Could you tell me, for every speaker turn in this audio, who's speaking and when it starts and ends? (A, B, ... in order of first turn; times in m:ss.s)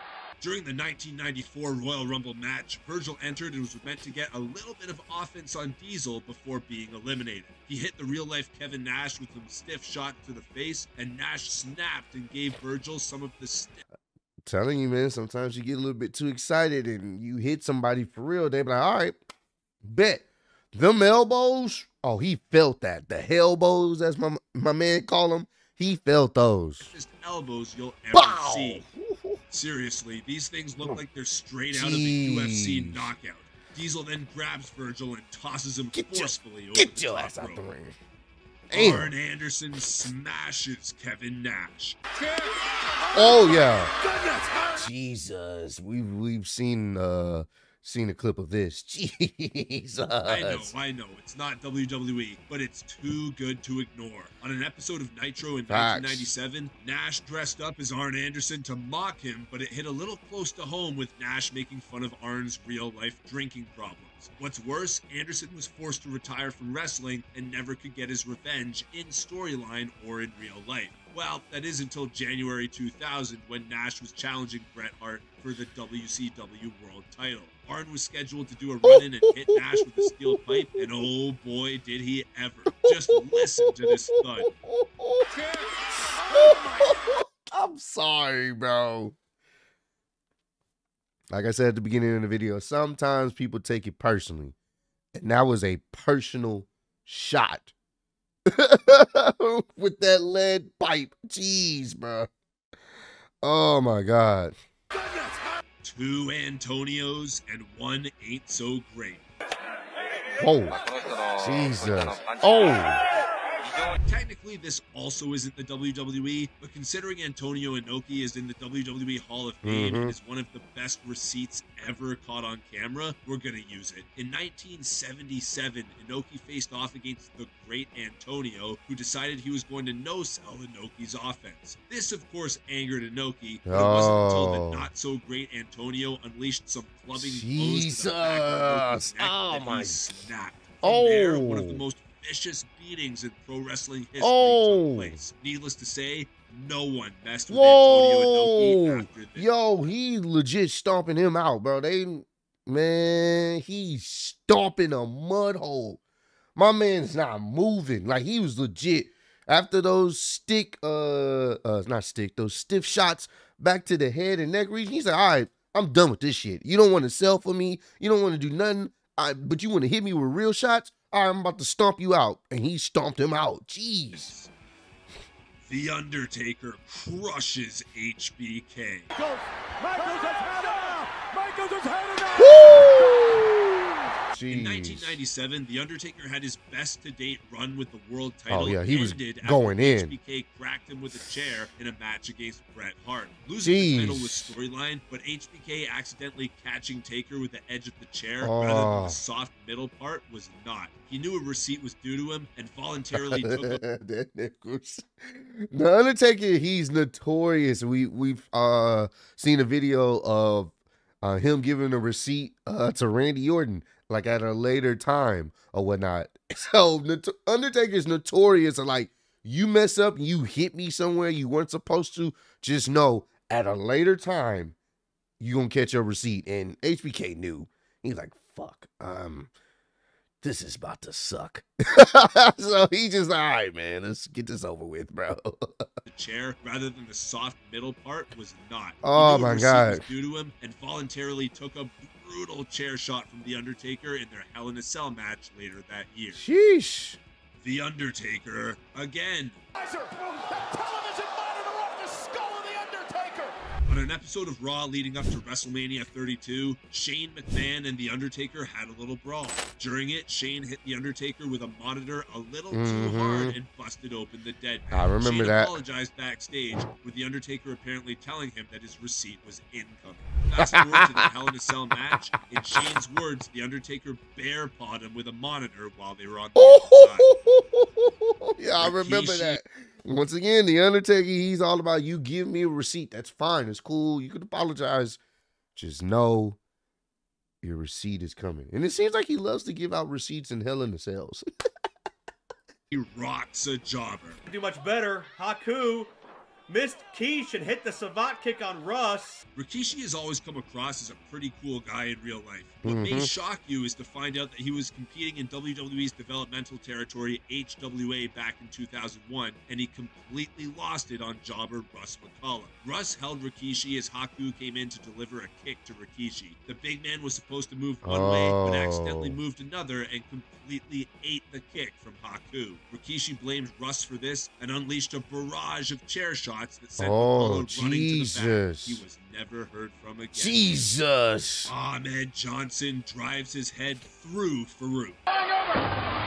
0:00.4-0:13.8 A
0:14.5-0:19.2 B
0:19.8-0:26.9 B
0:26.8-0:28.8 A
0:28.1-0:29.4 B
0:29.5-0:37.6 A
0:31.7-0:33.1 B
0:35.9-0:37.9 B
0:38.7-0:39.1 B
0:38.7-0:42.0 A
0:42.3-0:42.5 C
0:43.1-0:44.7 C
0:43.1-0:43.9 B
0:44.6-0:50.7 B
0:50.2-1:24.5 A
0:55.7-0:56.3 B
1:18.8-1:20.7 B
1:22.9-1:29.2 B
1:26.2-1:26.8 C
1:31.3-1:34.6 B
1:35.2-1:37.7 B
1:38.5-1:42.3 B
1:43.4-1:44.5 B
1:45.8-1:49.2 A
1:50.4-1:50.8 B
1:51.4-1:53.0 B
1:53.9-2:29.5 A
1:59.6-2:00.1 B
2:13.7-2:14.9 B
2:17.2-2:20.1 B
2:20.8-2:21.8 B
2:24.2-2:25.2 B
2:27.5-2:36.0 B
2:36.6-2:54.3 B
2:54.1-2:54.5 A
2:55.6-2:59.1 A
2:59.3-3:03.4 C
3:02.3-3:03.7 B
3:04.3-3:05.2 B
3:04.5-3:23.8 A
3:08.5-3:10.1 B
3:13.6-3:14.6 B
3:18.4-3:19.2 B
3:23.2-3:44.8 B
3:45.4-3:49.5 B
3:50.4-3:55.8 B
3:56.1-4:06.4 A
3:59.0-4:00.0 B
4:06.3-4:07.2 B
4:07.6-4:09.6 A
4:09.8-4:13.6 C
4:13.9-4:37.3 A
4:22.7-4:23.6 B
4:24.9-4:25.8 B
4:30.6-4:31.2 B
4:36.6-4:45.2 B
4:38.8-4:39.6 A
4:45.8-4:46.6 B
4:47.6-4:51.4 B
4:52.9-4:54.4 A
4:54.5-4:56.1 C
4:56.7-4:59.4 C
4:59.6-5:30.9 A
5:02.8-5:03.3 B
5:18.0-5:19.4 B
5:27.0-5:29.0 B
5:30.4-5:31.7 B
5:31.7-5:35.2 A